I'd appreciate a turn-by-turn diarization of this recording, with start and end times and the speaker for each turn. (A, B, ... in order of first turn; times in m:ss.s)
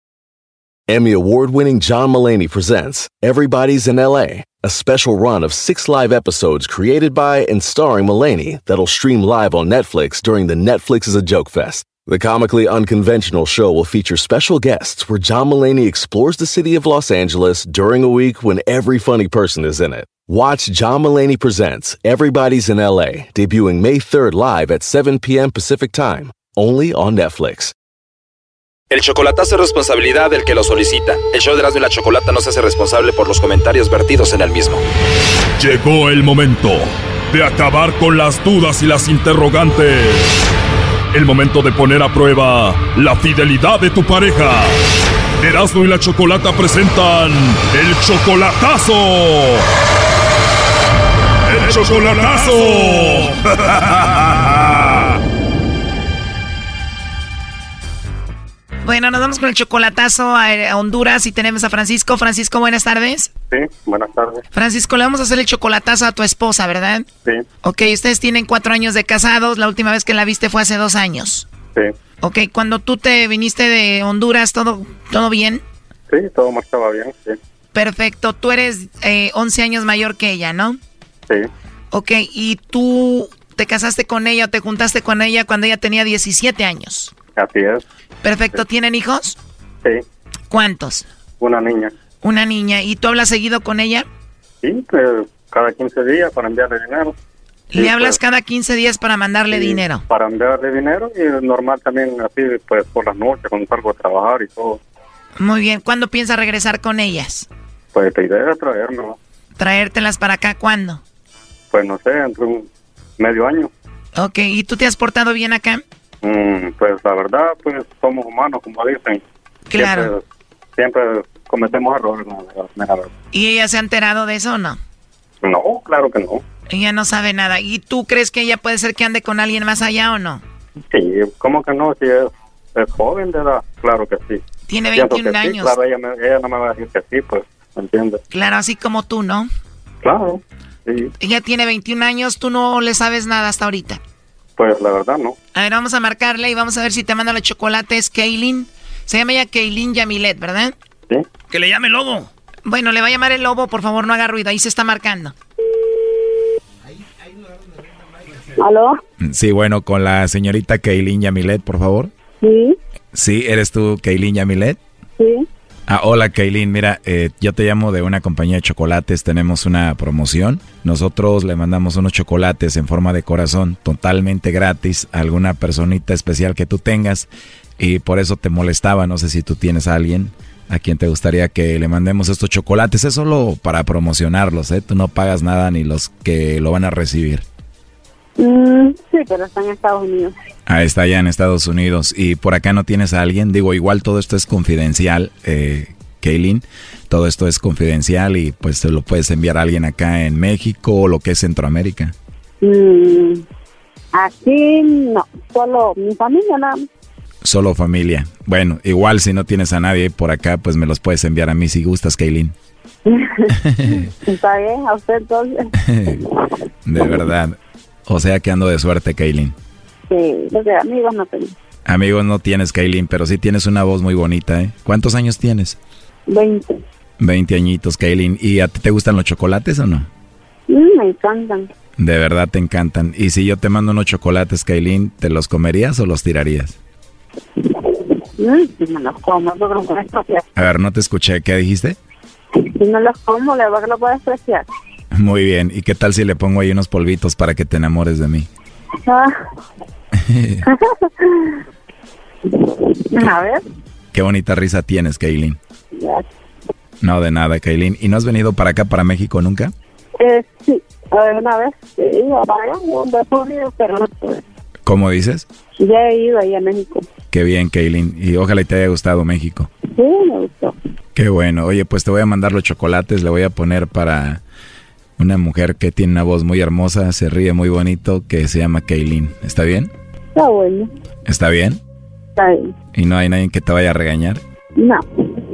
0:00.9-0:27.7 A
0:28.9-0:34.8 B
0:35.6-0:40.5 C
0:41.1-0:44.8 C
0:45.4-0:49.6 C
0:51.5-0:55.1 C
0:58.8-1:03.3 D
1:03.5-1:04.4 E
1:04.5-1:07.1 D
1:07.6-1:11.5 D
1:12.2-1:15.6 D
1:16.1-1:17.4 E
1:17.7-1:20.8 D
1:21.9-1:27.1 D
1:27.4-1:27.8 E
1:28.2-1:29.4 D
1:30.5-1:31.1 D
1:31.4-1:31.9 E
1:32.2-1:34.1 D
1:34.6-1:37.2 E
1:37.7-1:40.0 D
1:37.8-1:38.2 E
1:39.5-1:44.8 E
1:45.4-1:47.5 D
1:48.0-1:49.2 E
1:49.6-1:51.0 D
1:51.7-1:53.7 E
1:54.2-1:55.8 D
1:56.2-1:59.2 E
1:59.7-2:00.1 D
1:59.7-2:00.2 E
2:00.8-2:03.1 E
2:03.3-2:04.8 D
2:05.4-2:06.4 E
2:06.7-2:10.4 D
2:10.9-2:14.4 E
2:14.7-2:15.7 D
2:14.9-2:18.2 E
2:18.3-2:19.5 D
2:20.0-2:21.1 E
2:21.2-2:24.0 D
2:24.6-2:25.4 E
2:25.6-2:30.7 D
2:31.5-2:35.3 D
2:38.6-2:39.0 F
2:39.2-2:42.1 G
2:42.4-2:42.8 F
2:43.1-2:44.8 G
2:45.2-2:45.5 F
2:45.9-3:07.5 G
3:08.4-3:10.3 F
3:10.7-3:22.1 G
3:22.6-3:23.4 F
3:24.1-3:26.8 F
3:27.4-3:32.5 G
3:33.1-3:35.7 F
3:33.7-3:34.1 G
3:35.9-3:36.2 G
3:36.9-3:37.6 G
3:38.1-3:39.6 G
3:40.1-3:41.5 F
3:41.8-3:45.8 G
3:46.3-3:46.8 F
3:47.2-3:50.1 G
3:50.7-3:51.7 F
3:52.0-3:56.8 G
3:58.4-4:00.5 F
4:00.6-4:02.0 G
4:02.8-4:04.7 F
4:05.1-4:08.5 G
4:09.1-4:09.3 F
4:10.3-4:10.6 G
4:10.7-4:11.6 F
4:12.6-4:13.6 F
4:14.1-4:15.6 G
4:16.0-4:16.2 F
4:17.0-4:19.7 G
4:20.2-4:24.4 F
4:24.8-4:25.5 G
4:25.8-4:27.1 F
4:27.3-4:29.7 G
4:30.0-4:30.8 F
4:31.2-4:34.4 G
4:35.2-4:39.9 G
4:40.4-4:40.9 F
4:41.3-4:41.8 G
4:42.4-4:42.7 F
4:42.9-4:44.4 G
4:44.8-4:45.0 F